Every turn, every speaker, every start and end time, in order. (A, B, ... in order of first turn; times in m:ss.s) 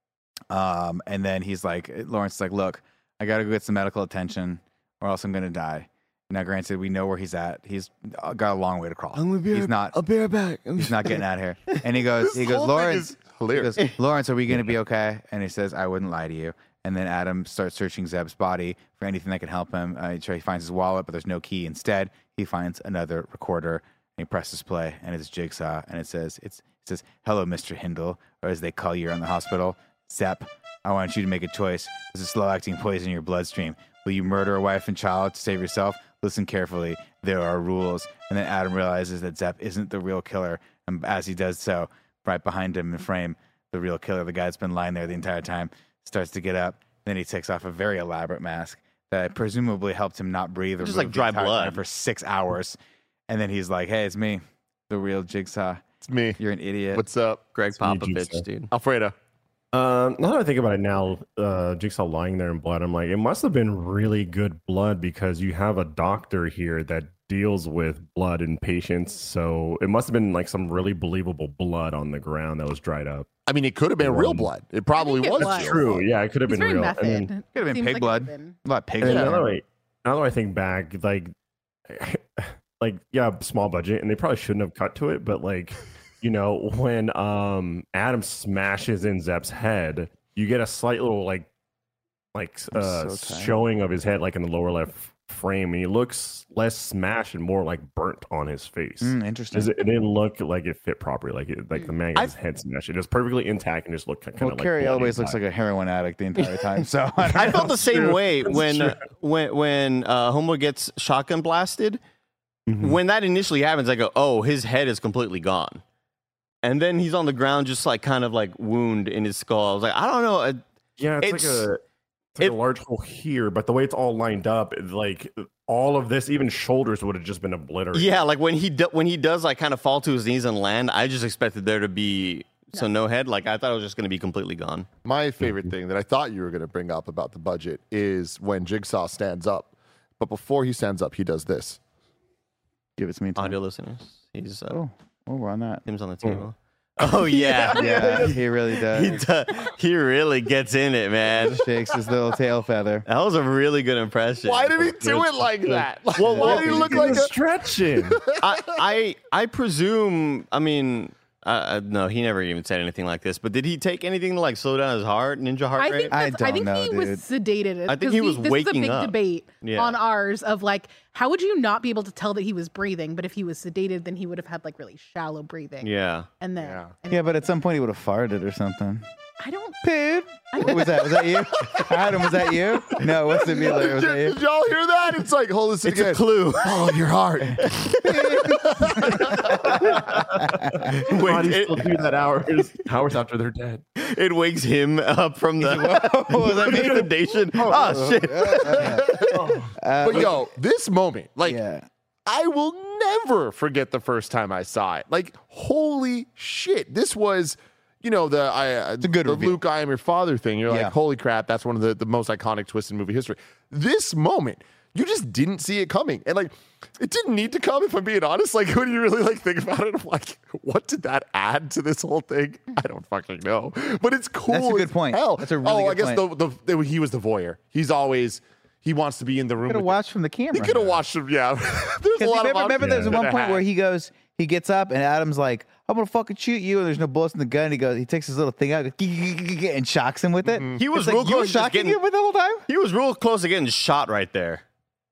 0:00.5-0:10.0 A
0:09.2-0:11.8 B
0:10.8-0:52.8 A
0:12.2-0:13.8 C
0:50.8-0:51.8 B
0:53.3-0:55.8 A
0:56.0-0:56.4 C
0:56.4-0:57.0 A
0:56.9-0:57.4 C
0:57.6-0:58.7 B
0:57.8-0:58.5 D
0:58.7-0:59.2 C
0:59.7-1:13.3 D
1:13.5-1:16.0 C
1:14.0-1:14.5 D
1:15.0-1:18.6 E
1:15.4-1:17.3 D
1:17.5-1:19.5 A
1:19.0-1:21.3 D
1:19.0-1:19.4 C
1:21.9-1:31.5 D
1:32.3-1:45.4 D
1:32.7-1:33.6 A
1:39.0-1:39.7 A
1:44.4-1:47.9 A
1:47.4-1:52.0 B
1:47.4-1:49.0 D
1:52.7-1:53.0 D
1:52.8-1:55.8 B
1:56.6-2:00.6 B
2:01.0-2:01.8 D
2:01.2-2:01.7 B
2:02.4-2:08.2 D
2:07.9-2:14.9 B
2:15.0-2:21.8 C
2:23.0-2:23.6 A
2:23.4-2:24.8 B
2:24.7-2:25.8 A
2:25.9-2:31.6 B
2:27.0-2:28.4 D
2:27.7-2:29.2 A
2:31.4-2:33.1 A
2:33.1-2:35.0 B
2:34.4-2:37.3 C
2:35.0-2:38.2 D
2:36.2-2:37.3 B
2:38.0-2:38.4 C
2:38.4-2:46.1 B
2:45.8-2:55.9 E
2:46.1-2:47.2 A
2:47.9-2:50.0 B
2:55.8-2:56.3 B
2:56.4-2:57.4 E
2:56.6-2:56.9 C
2:57.1-2:59.0 A
2:59.4-3:01.4 E
2:59.8-3:04.4 A
3:01.6-3:01.9 C
3:03.3-3:09.7 C
3:05.8-3:06.7 B
3:07.4-3:09.6 A
3:07.6-3:08.5 B
3:09.6-3:13.8 D
3:09.8-3:10.2 B
3:10.4-3:10.9 A
3:10.9-3:12.0 B
3:14.0-3:19.5 B
3:15.6-3:17.1 A
3:16.5-3:17.1 D
3:17.6-3:18.2 D
3:17.6-3:20.4 A
3:18.8-3:19.3 C
3:19.3-3:20.3 D
3:20.0-3:21.6 C
3:21.4-3:21.9 A
3:22.3-3:50.0 C
3:29.0-3:29.6 A
3:30.7-3:31.0 A
3:44.5-3:46.2 A
3:49.6-3:51.0 A
3:50.5-3:53.6 C
3:52.2-4:02.6 A
3:52.8-3:53.2 D
4:00.4-4:00.8 C
4:00.8-4:02.0 B
4:02.7-4:04.6 B